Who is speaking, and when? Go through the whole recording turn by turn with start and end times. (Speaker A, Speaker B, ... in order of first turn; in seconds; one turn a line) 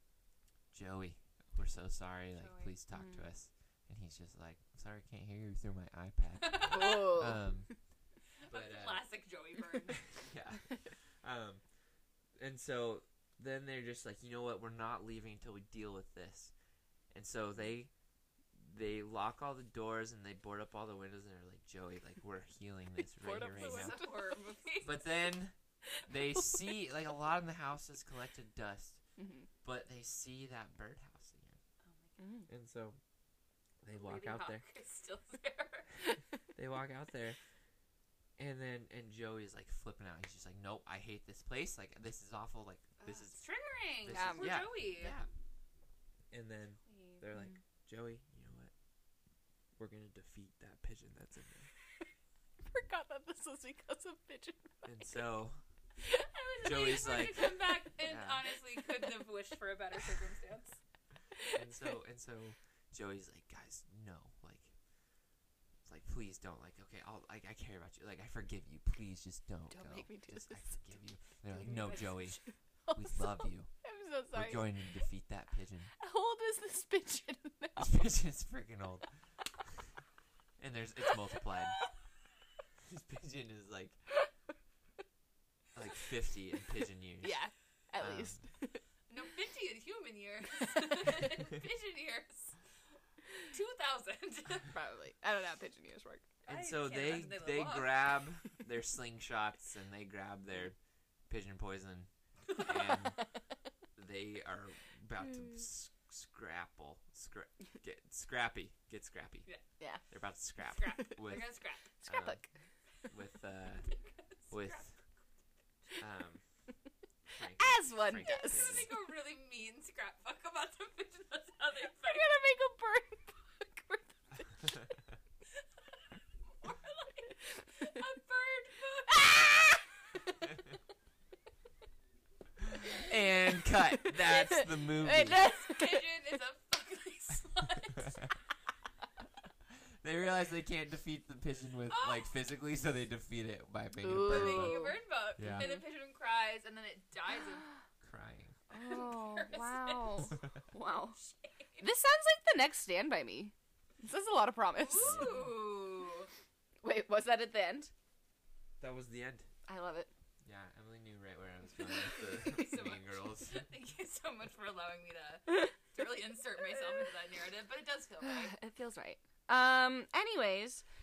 Speaker A: 0.7-7.7
Speaker B: 2.3-2.7
Speaker C: 2.9-3.3
Speaker B: 6.4-7.2
Speaker C: 6.7-7.4
Speaker B: 8.4-10.1
Speaker A: 8.5-9.0
Speaker A: 10.2-11.6
Speaker A: 12.4-16.5
Speaker A: 17.1-17.9
Speaker A: 18.6-24.0
Speaker C: 23.2-24.1
Speaker B: 23.3-25.2
Speaker A: 24.8-29.0
Speaker C: 29.2-29.5
Speaker A: 29.6-31.6
Speaker B: 31.8-32.2
Speaker C: 32.2-32.5
Speaker A: 32.5-33.0
Speaker A: 33.8-34.6
Speaker B: 33.9-35.9
Speaker A: 36.5-37.4
Speaker A: 38.4-43.4
Speaker B: 43.0-45.2
Speaker A: 44.0-45.3
Speaker C: 44.1-44.6
Speaker A: 46.3-48.7
Speaker B: 46.8-47.2
Speaker A: 49.8-51.7
Speaker C: 52.7-54.9
Speaker A: 54.8-55.6
Speaker B: 56.1-60.8
Speaker A: 56.6-58.4
Speaker A: 61.5-64.7
Speaker A: 65.8-72.4
Speaker C: 69.7-70.8
Speaker B: 71.5-72.3
Speaker C: 71.6-72.0
Speaker C: 72.8-74.7
Speaker A: 72.9-73.7
Speaker A: 74.3-75.9
Speaker C: 76.0-78.0
Speaker A: 77.8-79.0
Speaker A: 80.6-81.8
Speaker A: 82.8-84.0
Speaker A: 85.7-87.4
Speaker C: 87.2-88.8
Speaker A: 88.0-88.4
Speaker B: 89.1-92.5
Speaker B: 93.5-94.7
Speaker C: 94.7-96.3
Speaker B: 96.4-98.1
Speaker A: 96.5-100.8
Speaker A: 101.3-103.2
Speaker A: 104.0-109.5
Speaker A: 110.1-111.5
Speaker B: 110.7-111.9
Speaker C: 112.0-112.5
Speaker A: 112.0-112.4
Speaker A: 113.1-113.9
Speaker B: 114.4-114.9
Speaker A: 114.5-114.9
Speaker A: 116.0-116.4
Speaker A: 117.3-118.9
Speaker C: 117.6-118.8
Speaker B: 118.2-122.3
Speaker C: 122.0-124.5
Speaker B: 126.5-129.8
Speaker C: 129.3-129.7
Speaker A: 132.8-135.4
Speaker C: 134.0-136.0
Speaker B: 135.2-138.2
Speaker A: 138.0-138.3
Speaker A: 140.0-145.7
Speaker B: 141.9-142.3
Speaker C: 144.0-145.0
Speaker B: 144.2-147.7
Speaker C: 145.5-145.8
Speaker A: 148.0-148.5
Speaker C: 148.7-151.2
Speaker B: 148.8-150.3
Speaker B: 151.1-151.8
Speaker C: 151.8-155.3
Speaker B: 154.8-156.3
Speaker A: 155.0-155.5
Speaker C: 156.8-157.9
Speaker A: 158.8-159.5
Speaker C: 159.7-160.1
Speaker A: 160.4-163.6
Speaker B: 162.1-168.5
Speaker C: 168.2-170.8